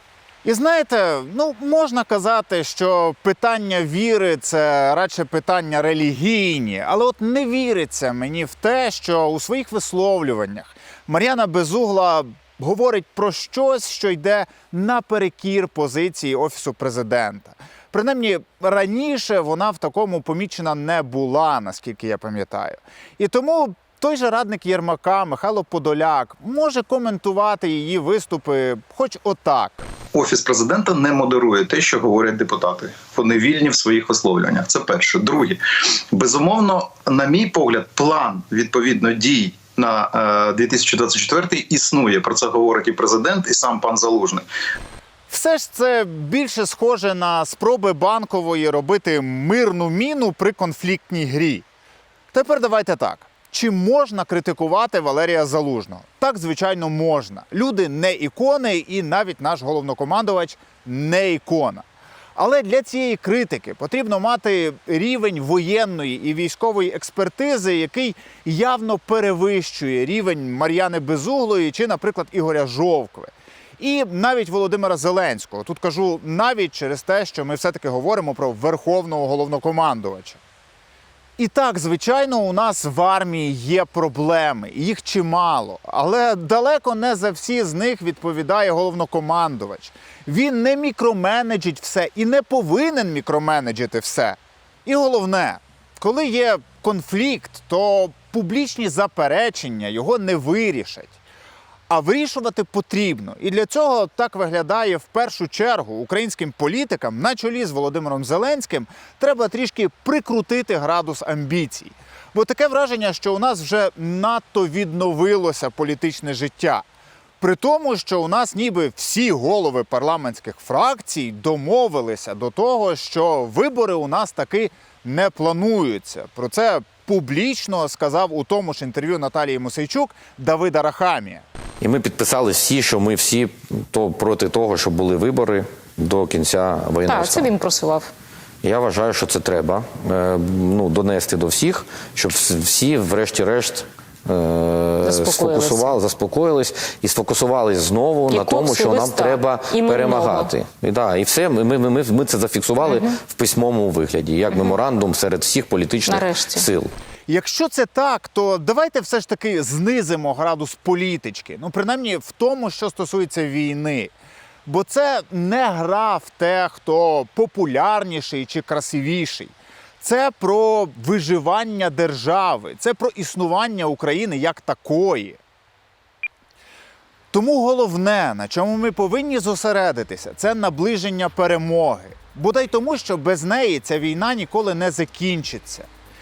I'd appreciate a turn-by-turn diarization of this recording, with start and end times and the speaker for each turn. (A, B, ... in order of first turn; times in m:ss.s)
0:00.4-0:29.8 A
0:30.1-0:44.4 B
0:45.3-0:51.6 A
0:52.3-1:01.8 A
1:02.4-1:20.4 A
1:21.4-1:41.2 A
1:41.9-1:56.8 A
1:57.4-2:11.4 A
2:11.8-2:17.5 C
2:17.0-2:18.1 D
2:18.6-2:36.9 C
2:25.0-2:25.9 D
2:28.3-2:30.5 D
2:32.8-2:33.2 D
2:34.5-2:34.8 D
2:36.0-2:36.7 D
2:37.3-2:44.1 A
2:44.6-2:55.4 A
2:57.3-3:05.9 A